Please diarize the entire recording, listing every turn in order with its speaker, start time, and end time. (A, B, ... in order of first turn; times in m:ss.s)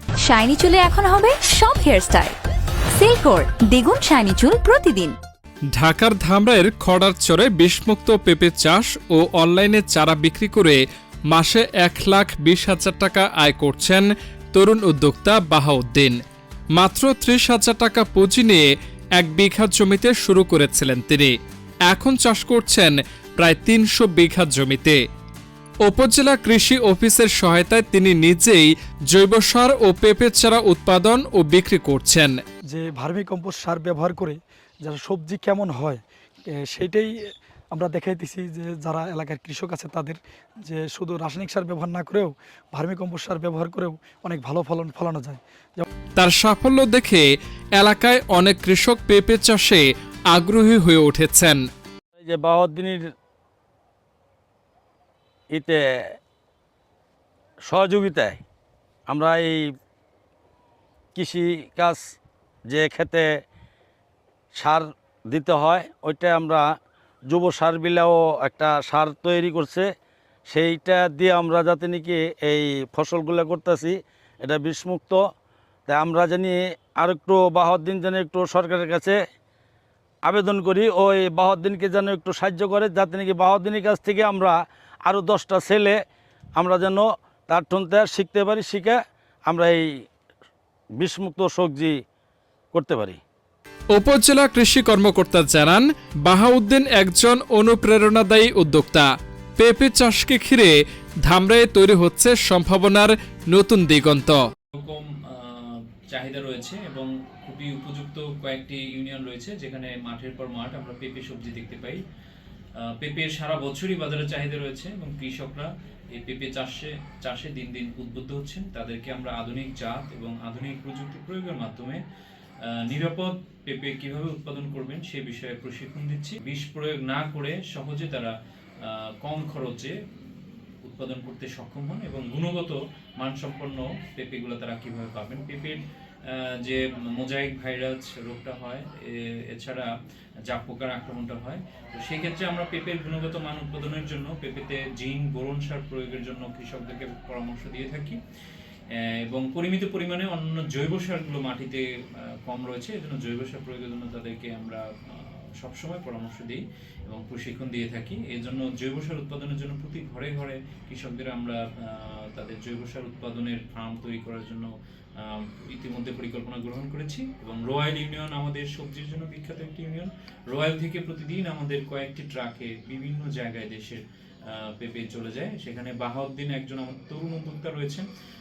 0:00.2-0:02.4 A
0:03.0-0:05.2 A
0:05.7-0:16.2 B
0:16.8-0:18.7 B
0:19.2-0:21.3 B
0:21.9-0:25.0 B
0:25.8-0:32.3 B
0:32.7-0:36.0 C
0:36.7-0:37.1 C
0:37.7-0:45.8 C
0:46.2-0:47.2 B
0:47.8-0:51.6 B
0:52.2-0:53.0 D
0:55.5-0:55.8 D
0:57.7-0:58.4 D
0:59.1-0:59.6 D
1:01.2-1:02.0 D
1:02.7-1:03.3 D
1:04.6-1:06.6 D
1:07.3-1:09.9 D
1:10.5-1:15.2 D
1:15.9-1:19.2 D
1:20.2-1:26.0 D
1:26.6-1:29.9 D
1:31.0-1:32.0 D
1:32.7-1:33.2 D
1:33.9-1:40.7 B
1:41.2-1:44.4 B
1:44.8-1:52.0 E
1:52.9-2:02.0 E
2:02.7-2:08.3 E
2:08.8-2:19.9 E
2:20.5-2:28.2 E
2:29.0-2:44.7 E
2:45.2-2:58.0 E